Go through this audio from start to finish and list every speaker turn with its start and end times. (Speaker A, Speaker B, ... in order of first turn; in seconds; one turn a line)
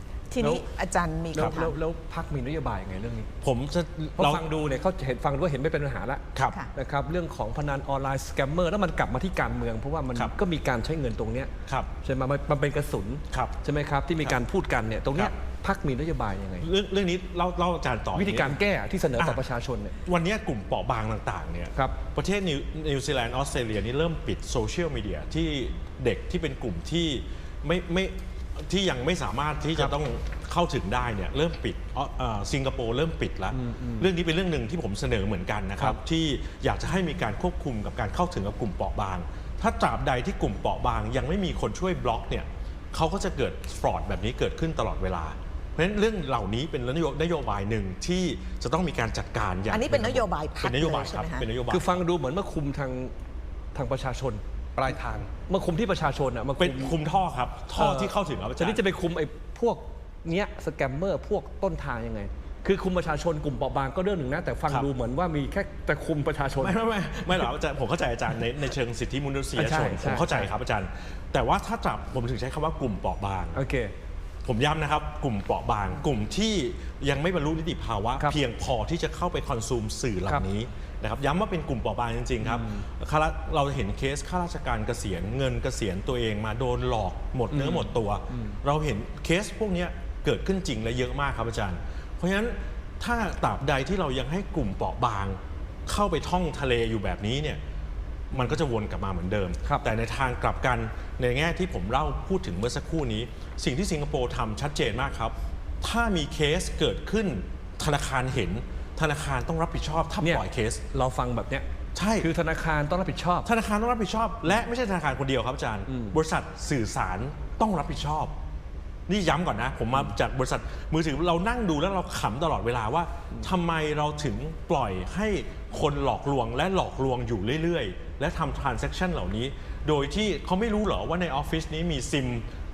Speaker A: 0.3-1.8
Speaker B: 0.4-0.6
Speaker B: 1.3-3.3
Speaker C: 3.4-4.4
Speaker B: 4.2-16.7
Speaker C: 13.3-13.6
Speaker C: 16.6-18.6
Speaker B: 18.1-19.9
Speaker C: 19.2-19.5
Speaker C: 20.0-52.0
Speaker B: 33.5-34.1
Speaker A: 49.7-51.5
Speaker B: 51.7-53.1
Speaker B: 53.7-57.0
Speaker C: 56.6-58.8
Speaker B: 57.7-67.5
Speaker C: 66.6-73.6
Speaker B: 69.6-70.5
Speaker B: 73.5-73.9
Speaker C: 74.5-97.6
Speaker B: 82.4-82.8
Speaker B: 87.5-88.6
Speaker C: 98.3-110.8
Speaker B: 98.3-98.6
Speaker B: 99.6-99.9
Speaker B: 110.2-111.7
Speaker C: 112.0-112.3
Speaker B: 112.2-113.5
Speaker C: 113.4-118.3
Speaker B: 115.9-116.2
Speaker C: 119.1-132.4